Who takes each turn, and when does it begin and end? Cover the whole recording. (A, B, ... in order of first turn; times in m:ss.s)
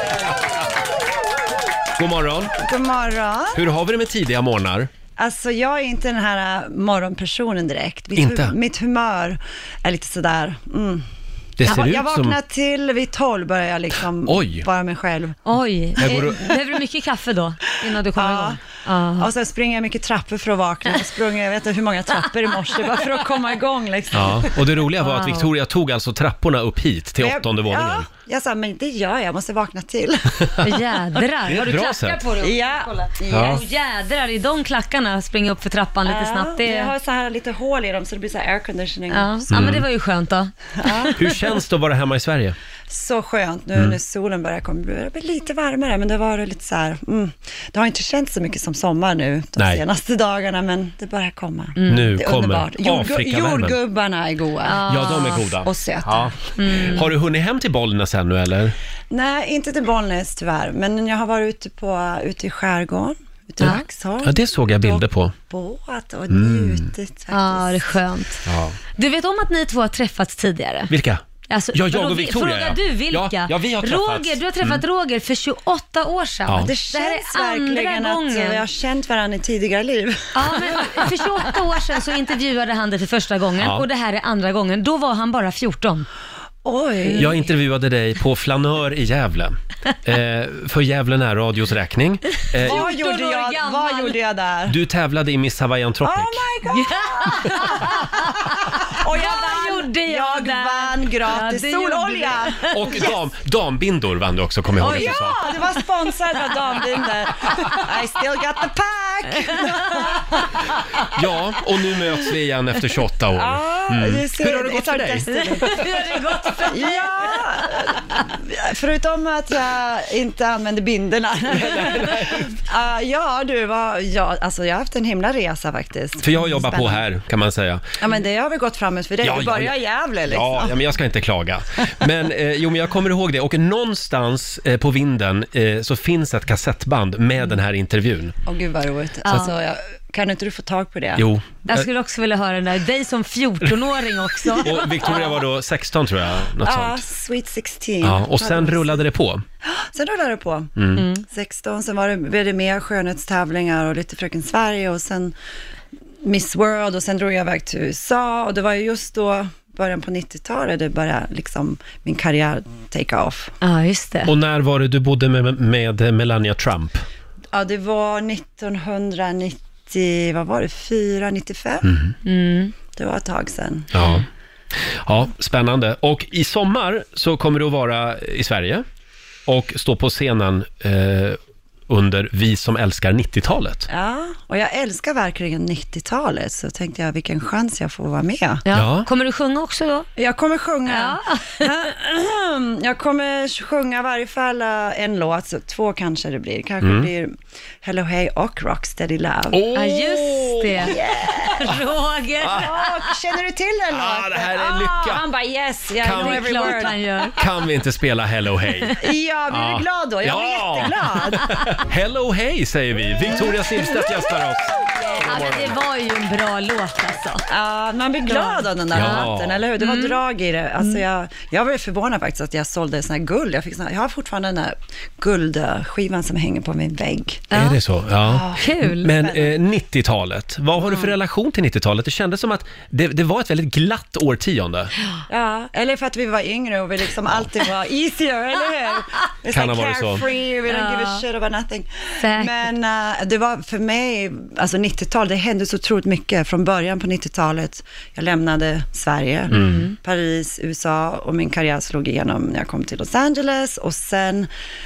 0:02.0-0:02.5 A
0:02.6-0:03.6 B
0:03.6-0:04.9 A
0:05.2-0:11.0 B
0:08.2-0:08.5 A
0:11.6-0:12.4 A
0:11.6-0:15.4 B
0:14.3-0:14.7 A
0:15.4-0:19.3 C
0:16.0-0:16.4 A
0:18.1-0:18.6 B
0:19.2-0:24.6 B
0:24.1-0:28.1 A
0:25.0-0:25.5 C
0:27.2-0:30.6 B
0:30.6-0:36.9 C
0:31.5-0:32.2 A
0:32.4-0:33.6 B
0:33.3-0:33.6 A
0:36.0-0:39.8 B
0:39.1-0:41.2 C
0:39.5-0:39.8 A
0:40.8-0:41.6 B
0:41.2-0:42.6 A
0:42.9-0:54.9 B
0:49.6-0:49.8 A
0:51.8-0:52.1 C
0:51.9-0:53.8 A
0:54.6-0:55.5 C
0:54.9-0:58.8 A
0:55.6-0:56.3 B
0:56.6-0:57.1 C
0:59.1-1:08.0 B
1:03.7-1:05.3 A
1:06.3-1:06.8 A
1:07.3-1:10.9 C
1:08.5-1:08.8 A
1:10.9-1:11.2 A
1:11.5-1:18.6 C
1:11.7-1:14.8 A
1:16.6-1:20.9 B
1:20.4-1:26.1 C
1:23.6-1:23.8 A
1:26.6-1:27.4 B
1:27.1-1:32.8 A
1:32.5-1:34.2 C
1:32.6-1:34.8 B
1:34.7-1:36.4 A
1:36.0-1:43.2 B
1:36.7-1:43.1 C
1:42.7-1:45.4 A
1:44.8-1:45.6 C
1:44.8-1:50.5 B
1:46.3-1:46.8 C
1:49.4-1:50.5 C
1:51.1-1:55.9 A
1:53.3-1:55.8 B
1:55.3-1:58.2 C
1:56.7-2:07.1 B
2:01.5-2:02.5 A
2:06.2-2:07.8 A
2:08.0-2:10.8 B
2:09.2-2:09.7 A
2:10.3-2:18.3 A
2:18.5-2:21.2 B
2:19.2-2:19.5 C
2:21.2-2:21.9 A
2:21.6-2:24.9 C
2:24.6-2:27.0 A
2:24.9-2:25.4 B
2:26.6-2:29.0 B
2:28.0-2:29.4 A
2:29.6-2:30.8 B
2:30.8-2:31.0 A
2:31.0-2:31.2 C
2:31.3-2:35.4 B
2:36.2-2:43.6 B
2:43.6-2:44.3 C
2:44.3-2:47.0 A
2:47.5-2:52.0 B
2:51.9-2:52.1 A
2:52.2-2:52.7 C
2:52.9-2:53.9 B
2:53.9-2:54.2 A
2:55.0-2:58.8 A
2:59.5-3:03.9 A
3:03.9-3:08.6 B
3:08.6-3:10.1 C
3:08.7-3:09.1 A
3:10.2-3:19.7 B
3:10.9-3:11.7 C
3:16.8-3:17.1 A
3:19.5-3:20.9 A
3:19.7-3:23.1 C
3:20.9-3:21.7 B
3:22.4-3:22.7 A
3:22.5-3:27.3 B
3:23.9-3:25.2 A
3:26.0-3:29.0 A
3:26.1-3:27.4 C
3:29.0-3:31.6 B
3:29.5-3:35.7 A
3:35.1-3:37.4 C
3:37.5-3:47.5 B
3:38.3-3:40.2 C
3:38.9-3:39.6 A
3:47.5-3:47.8 C
3:47.5-3:54.9 A
3:48.2-3:49.6 B
3:48.5-3:49.1 C
3:55.3-4:14.5 B
3:59.5-4:00.2 A
4:00.7-4:01.2 C
4:02.2-4:02.6 C
4:09.5-4:10.0 C
4:09.5-4:09.9 A